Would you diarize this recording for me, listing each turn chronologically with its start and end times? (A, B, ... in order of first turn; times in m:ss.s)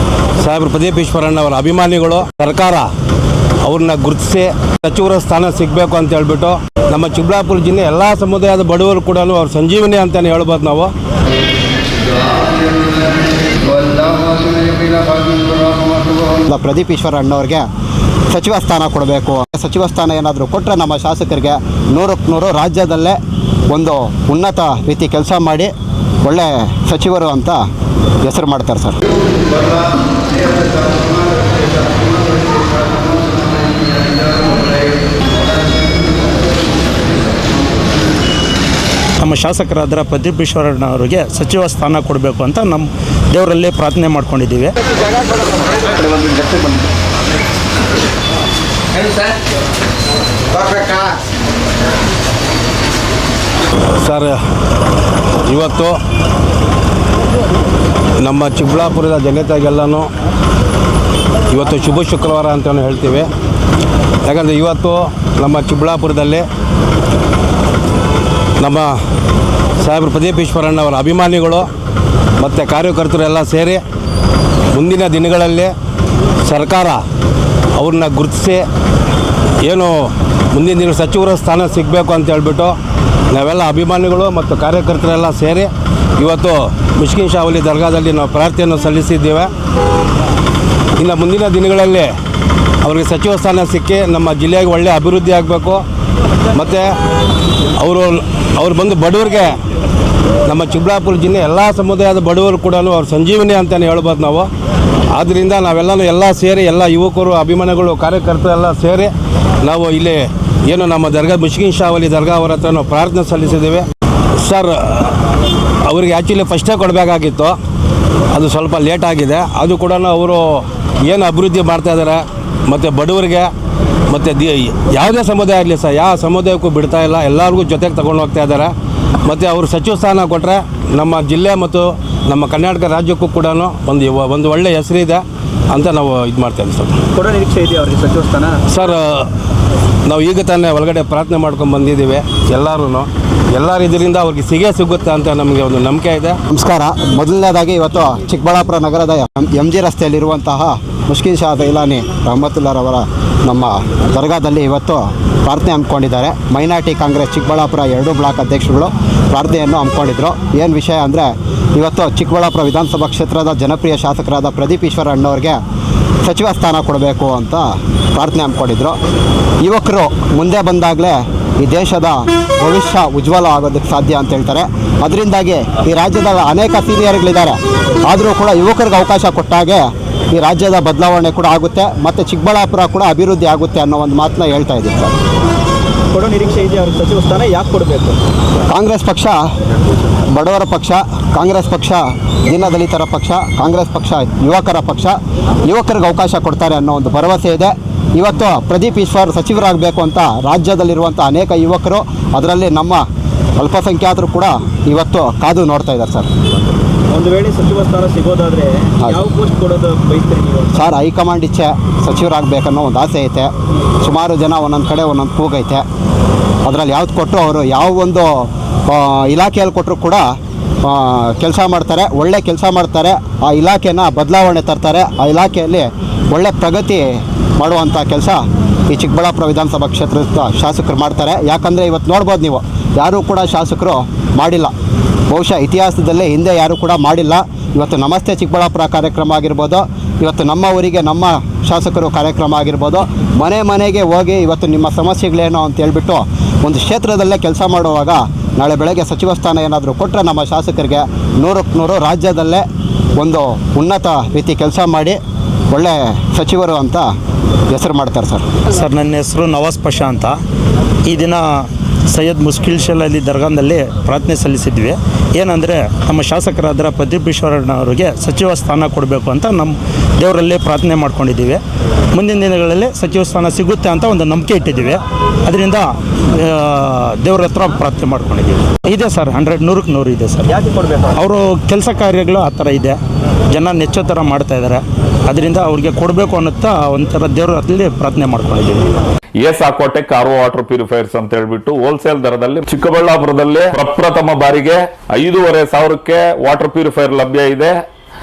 0:00.4-0:02.9 A
0:03.6-0:10.9 A
0:13.5-0:16.2 A
0:16.4-0:17.7 B
0:18.3-0:23.2 B
0:23.7-0:25.7 B
0:26.2-0:27.6 B
0:28.2-0:29.0 B
0:39.2-0:44.8 C
0:54.0-0:54.4 A
0:55.4-0:56.0 A
0:58.2-1:00.1 A
1:01.5-1:03.3 A
1:04.2-1:06.4 A
1:08.6-1:08.9 A
1:09.8-1:11.7 A
1:12.4-1:13.8 A
1:14.7-1:15.7 A
1:16.4-1:17.0 A
1:17.8-1:18.7 A
1:19.6-1:22.8 A
1:23.3-1:29.5 A
1:31.0-1:32.1 A
1:32.8-1:35.8 A
1:36.5-1:36.9 A
1:37.8-1:39.6 A
1:40.4-1:44.5 A
1:45.1-1:53.9 A
1:54.4-1:55.2 A
1:55.8-1:57.6 A
1:58.3-2:03.5 A
2:04.1-2:08.7 A
2:09.2-2:17.0 A
2:17.1-2:18.6 D
2:18.7-2:19.3 A
2:20.0-2:26.4 A
2:26.5-2:45.6 B
2:46.2-2:49.0 B
2:49.6-3:05.1 B
3:06.1-3:08.2 D
3:08.7-3:09.3 B
3:10.3-3:23.0 B
3:23.6-3:26.3 B
3:27.1-3:30.8 D
3:30.7-3:33.5 B
3:34.0-3:35.8 B
3:36.6-3:40.2 B
3:40.8-3:54.7 B
3:55.3-4:12.6 B
4:13.2-4:15.2 B
4:15.7-4:17.1 B
4:17.7-4:18.4 B
4:18.7-4:20.4 C
4:21.1-4:31.6 C
4:32.1-4:40.6 C
4:40.5-4:41.2 D
4:41.1-4:43.0 C
4:43.5-4:48.9 C
4:49.4-4:57.7 E